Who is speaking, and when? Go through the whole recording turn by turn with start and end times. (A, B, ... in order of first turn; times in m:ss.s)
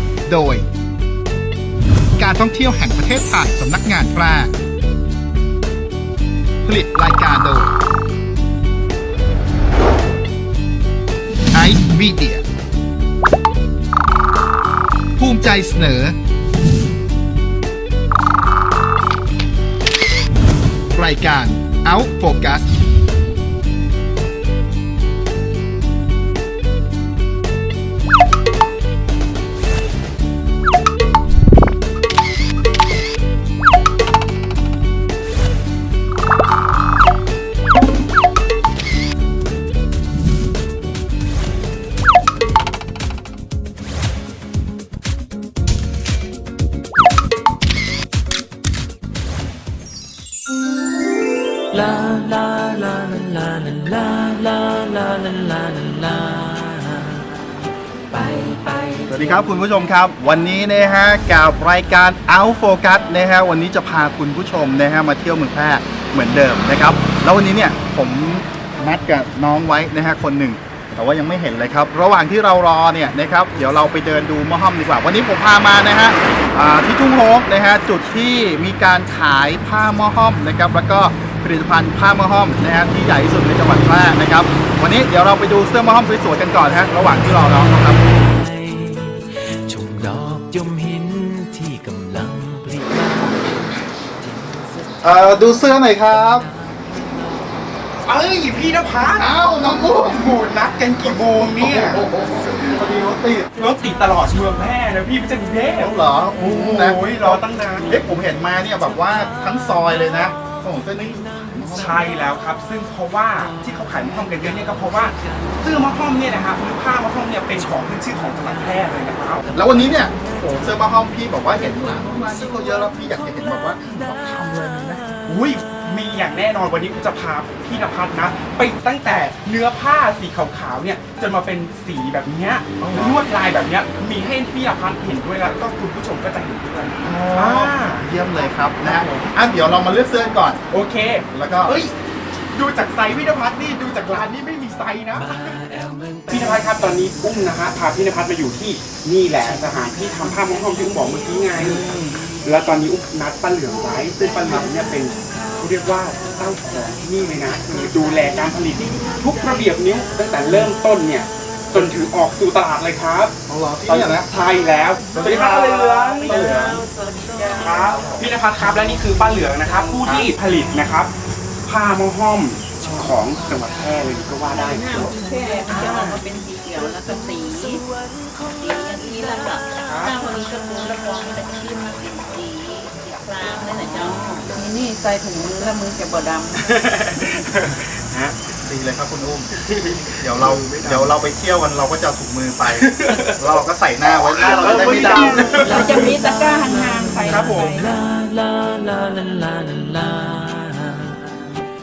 0:00.3-0:00.6 A
0:02.2-0:04.5 A
0:06.7-0:07.7 A
0:11.5-0:12.4 A
0:15.2-0:16.2 A
0:20.9-0:22.7 A
0:51.7-0:57.3 B
0:58.1-0:59.7 B
0:59.1-1:28.0 A
1:27.6-1:37.7 B
1:35.0-1:36.5 A
1:38.1-1:39.3 C
1:39.1-1:40.4 A
1:40.0-1:42.0 C
1:41.5-1:43.5 A
1:43.6-1:47.9 C
1:45.8-1:52.0 A
1:51.7-1:59.5 C
1:53.6-1:55.5 B
1:59.5-2:00.3 B
1:59.5-2:05.0 A
2:05.3-2:18.0 C
2:12.8-2:13.2 A
2:17.0-2:20.6 A
2:18.8-2:19.3 C
2:20.7-2:21.9 C
2:21.3-2:21.8 A
2:22.5-2:25.6 C
2:25.2-2:27.9 B
2:26.3-2:43.4 C
2:29.3-2:32.3 B
2:31.6-2:32.2 A
2:43.5-2:44.3 A
2:43.9-2:46.8 C
2:45.1-2:46.7 A
2:46.0-2:48.4 D
2:46.4-2:47.6 B
2:47.5-2:51.1 C
2:51.7-2:56.2 C
2:52.8-2:54.2 B
2:54.5-2:57.8 D
2:54.9-2:55.6 B
2:57.0-2:59.6 B
2:58.6-3:06.7 D
2:59.8-3:00.2 C
3:03.8-3:04.5 C
3:06.5-3:08.4 C
3:08.6-3:09.6 A
3:09.6-3:11.1 C
3:10.2-3:16.2 A
3:12.6-3:13.4 C
3:14.1-3:16.1 C
3:14.6-3:17.9 D
3:15.5-3:21.4 B
3:17.3-3:17.8 C